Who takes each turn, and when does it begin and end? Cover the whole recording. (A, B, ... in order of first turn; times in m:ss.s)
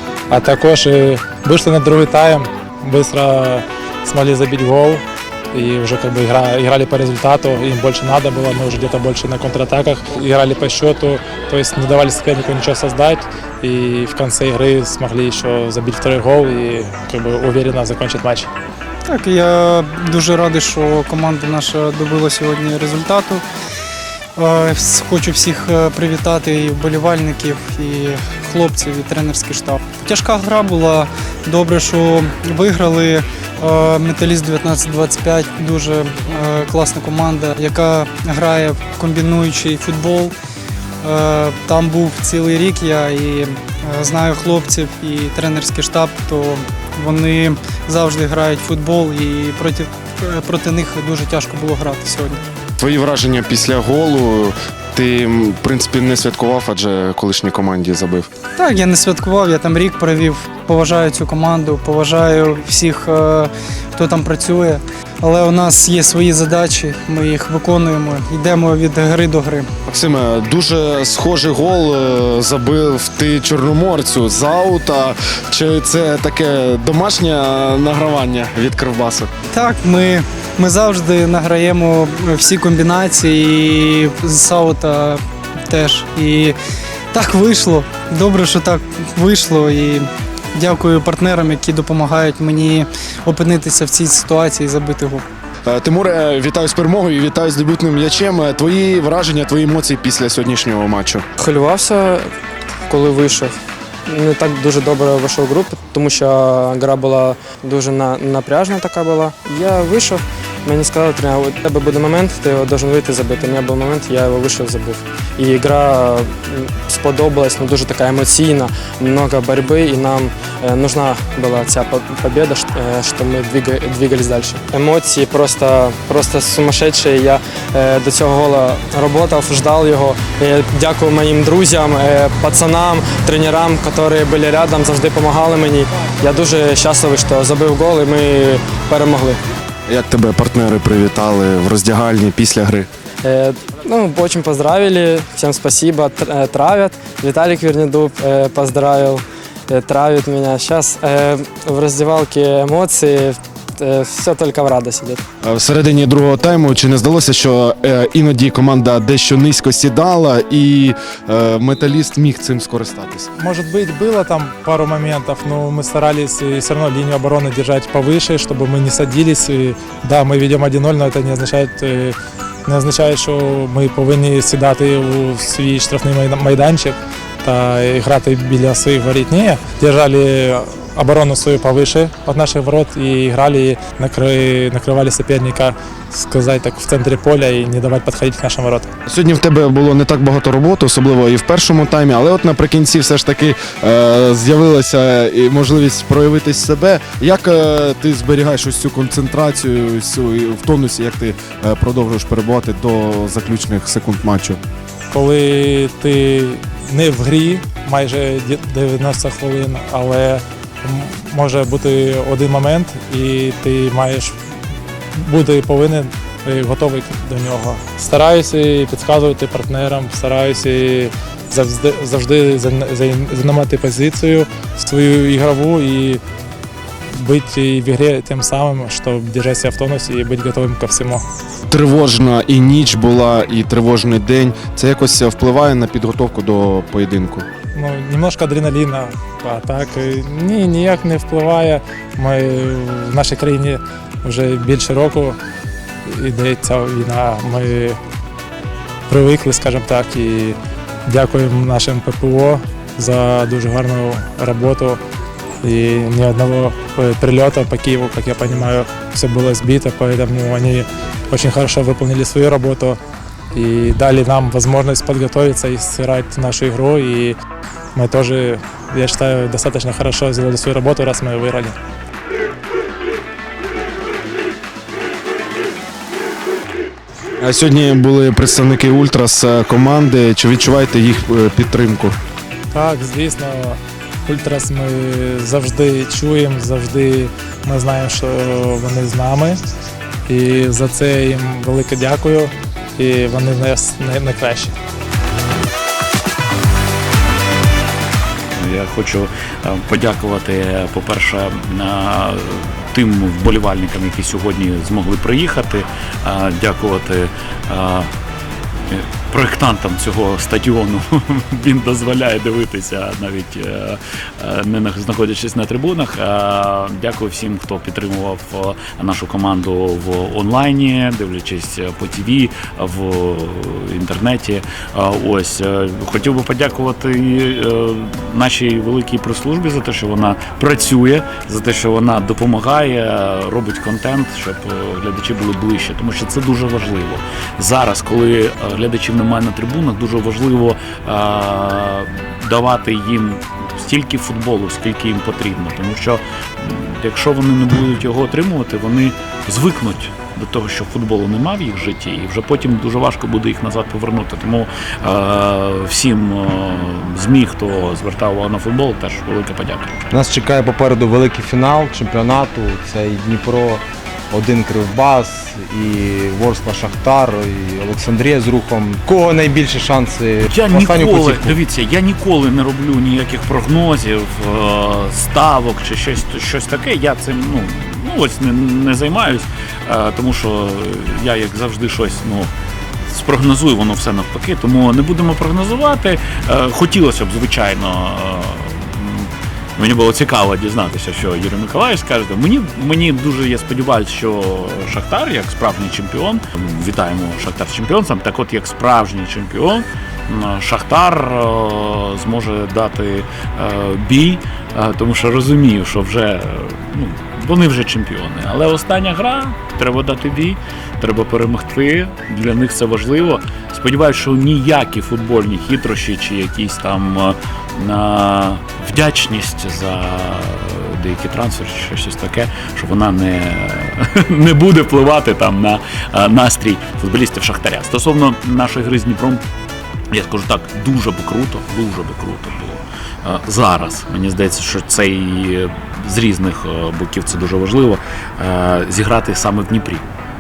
0:00.3-0:18.5 A
0:19.1-0:23.4 B
0:24.4-0:40.3 B
0:41.0-0:52.4 B
0:52.8-0:58.3 C
0:58.6-1:09.7 B
1:09.9-1:19.3 C
1:19.5-1:26.6 B
1:27.1-1:35.2 B
1:35.7-1:41.2 C
1:41.4-1:42.3 D
1:42.9-1:43.5 D
1:44.0-2:19.4 D
2:19.9-2:22.9 C
2:23.2-2:35.2 D
2:35.4-2:43.3 C
2:43.4-3:08.9 A
3:09.0-3:24.6 C
3:25.1-3:34.3 A
3:35.2-3:46.2 A
3:47.1-3:51.2 A
3:51.7-3:57.4 C
3:57.7-4:05.4 A
4:06.0-4:08.0 A
4:09.1-4:15.0 A
4:15.6-4:23.0 A
4:23.5-4:27.4 A
4:27.9-4:31.7 A
4:37.4-4:42.2 C
4:42.7-4:49.6 A
4:50.3-4:54.7 A
4:58.5-5:08.1 E
5:08.9-5:59.9 E
6:00.1-6:11.6 F
6:10.5-6:22.5 E
6:23.1-7:09.4 E
7:10.1-7:20.1 E